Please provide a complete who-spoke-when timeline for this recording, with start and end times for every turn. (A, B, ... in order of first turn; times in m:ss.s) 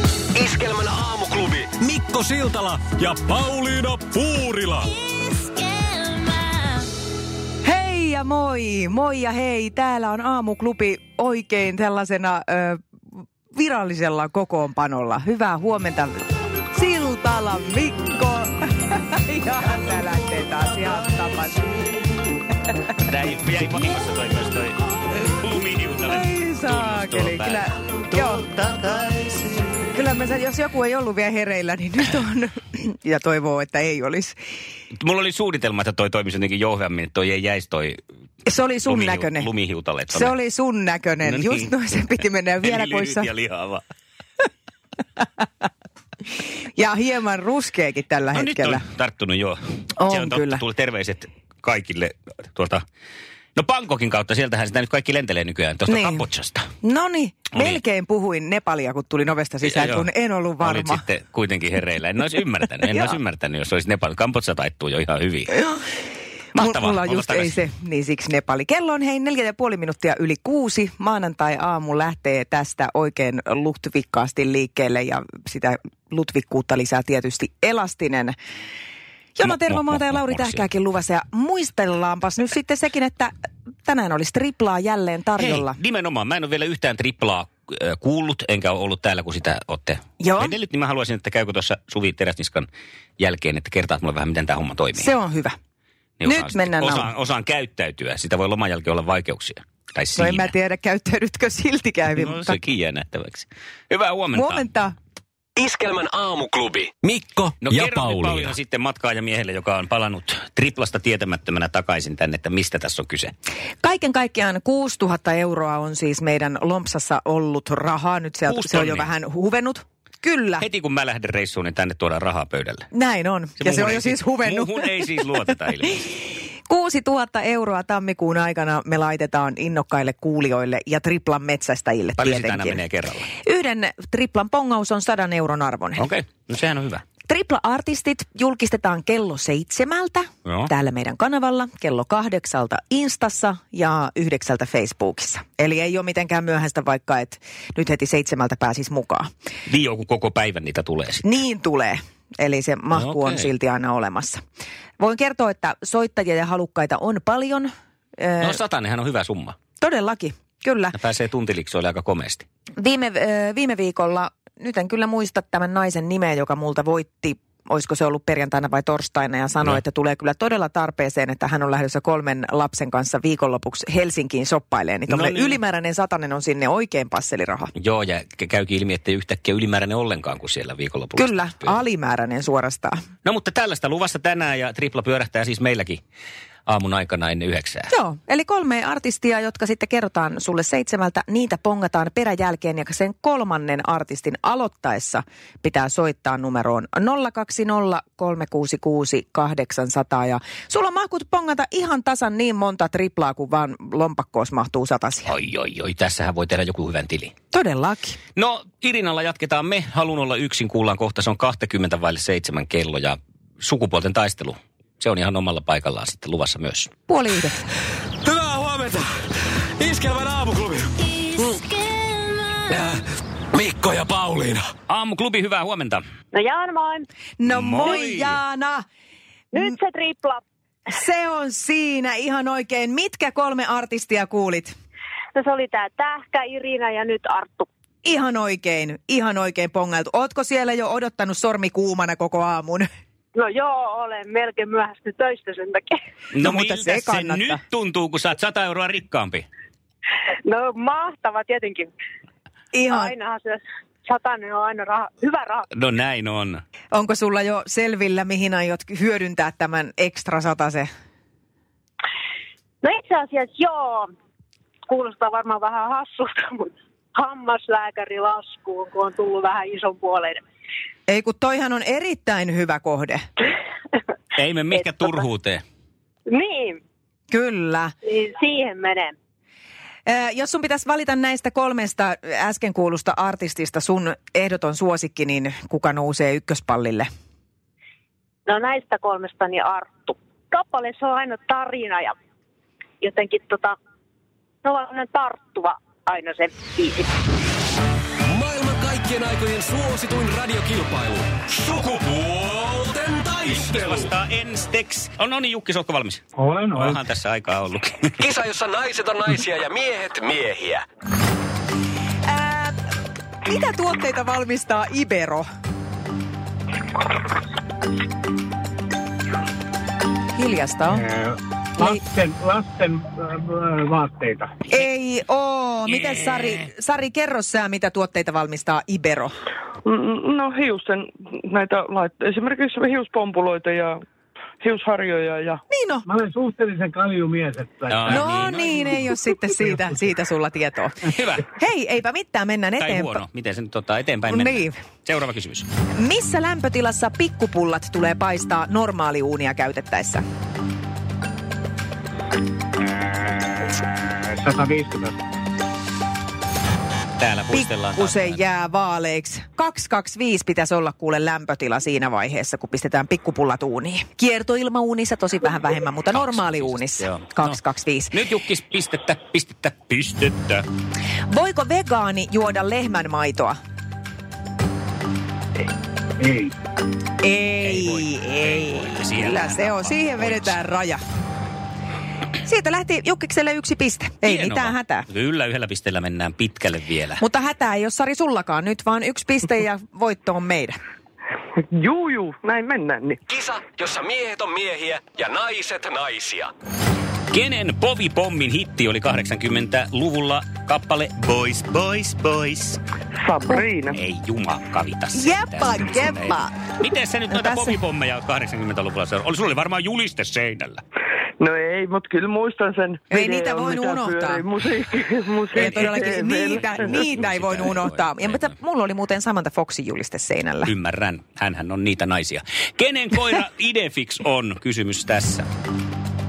0:00.3-0:04.9 A
0:05.2-0:06.3 B
0:07.6-0:12.8 C
0:13.5-0:16.2 C
0:16.7-0:22.0 C
0:23.0-0:29.8 D
0:26.1-0:28.4 C
0:29.9-0:34.4 C
0:35.0-0:38.0 D
0:38.4-0:39.5 C
0:38.8-0:40.3 D
0:40.1-0:43.3 C
0:41.2-0:41.7 D
0:42.6-0:43.8 D
0:46.8-0:48.8 C
0:48.3-0:52.8 D
0:50.0-0:50.6 C
0:53.6-0:56.7 D
0:55.9-0:56.2 C
0:56.8-1:01.0 C
0:57.5-0:57.8 D
0:59.6-1:00.1 D
1:00.6-1:05.5 D
1:02.9-1:03.2 C
1:05.5-1:05.8 C
1:06.5-1:18.4 C
1:06.5-1:07.6 D
1:19.4-1:23.3 C
1:19.4-1:20.6 D
1:23.8-1:25.8 C
1:25.4-1:32.7 D
1:30.2-1:30.6 C
1:33.2-1:35.1 D
1:34.9-1:35.6 C
1:36.2-1:40.5 D
1:36.2-1:37.1 C
1:40.2-1:42.6 C
1:42.1-1:44.7 D
1:44.3-1:44.9 C
1:45.6-1:48.5 A
1:47.6-1:53.3 D
1:53.8-2:00.6 C
1:58.4-1:59.1 D
2:00.6-2:02.9 D
2:02.9-2:05.0 C
2:03.6-2:06.2 D
2:06.7-2:12.8 C
2:12.2-2:13.3 D
2:13.4-2:16.0 C
2:16.0-2:17.0 D
2:17.3-2:29.3 C
2:20.4-2:20.7 D
2:29.7-2:31.2 D
2:31.2-2:34.4 C
2:32.9-2:33.5 D
2:35.0-2:38.6 C
2:38.4-2:39.6 D
2:39.8-2:41.0 C
2:40.9-2:42.4 D
2:42.8-2:57.7 C
2:55.1-2:55.6 D
2:57.7-3:01.8 D
3:01.2-3:03.0 C
3:03.2-3:06.0 D
3:06.7-3:07.9 D
3:07.9-3:25.3 C
3:25.3-3:27.3 D
3:27.5-3:28.2 C
3:28.4-3:36.9 D
3:37.1-3:37.6 C
3:38.2-3:39.1 A
3:39.8-3:41.6 A
3:41.4-3:42.7 B
3:42.7-3:43.0 A
3:43.5-3:44.6 A
3:44.9-3:46.0 D
3:46.3-3:47.1 B
3:47.4-3:48.8 C
3:47.5-3:48.4 D
3:49.5-3:50.4 B
3:50.9-3:54.7 C
3:55.3-3:57.7 B
3:58.0-4:02.9 C
4:03.3-4:05.9 B
4:06.3-4:09.5 D
4:06.4-4:07.6 C
4:10.4-4:11.9 B
4:12.7-4:13.1 C
4:12.9-4:15.7 B
4:15.7-4:16.6 D
4:16.9-4:20.9 C
4:22.8-4:24.1 B
4:24.9-4:30.4 B
4:31.1-4:33.2 C
4:34.4-4:35.6 D
4:36.3-4:36.8 B
4:37.3-4:37.9 C
4:38.0-4:39.1 B
4:40.0-4:47.1 C
4:48.5-4:52.1 B
4:53.0-4:53.8 B
4:54.6-4:57.1 B
4:58.2-5:04.1 A
5:03.5-5:06.2 D
5:06.4-5:07.0 E
5:06.7-5:08.2 D
5:08.2-5:10.8 A
5:12.3-5:12.8 C
5:13.4-5:15.4 C
5:20.4-5:21.0 C
5:20.9-5:24.5 E
5:24.7-5:29.3 C
5:29.8-5:34.0 F
5:34.6-5:35.6 F
5:35.7-5:36.1 C
5:36.0-5:39.9 E
5:37.9-5:39.0 D
5:38.1-5:43.2 C
5:41.1-5:41.5 D
5:42.8-5:45.7 D
5:44.3-5:44.8 C
5:46.0-5:50.2 C
5:53.3-5:55.2 E
5:57.2-5:58.4 D
5:57.5-6:08.2 C
6:06.1-6:07.6 D
6:08.1-6:10.6 D
6:11.3-6:13.6 C
6:16.2-6:16.5 E
6:17.2-6:21.0 C
6:17.6-6:20.6 D
6:22.4-6:25.0 C
6:24.2-6:27.2 D
6:27.2-6:30.8 C
6:31.6-6:33.2 F
6:33.3-6:36.5 A
6:37.3-6:42.8 D
6:43.1-6:44.0 F
6:43.9-6:50.8 D
6:45.1-6:46.7 C
6:47.3-6:47.8 C
6:51.4-6:57.1 F
6:53.1-6:54.4 C
6:55.5-7:00.7 C
6:55.6-6:58.5 D
7:00.6-7:05.4 D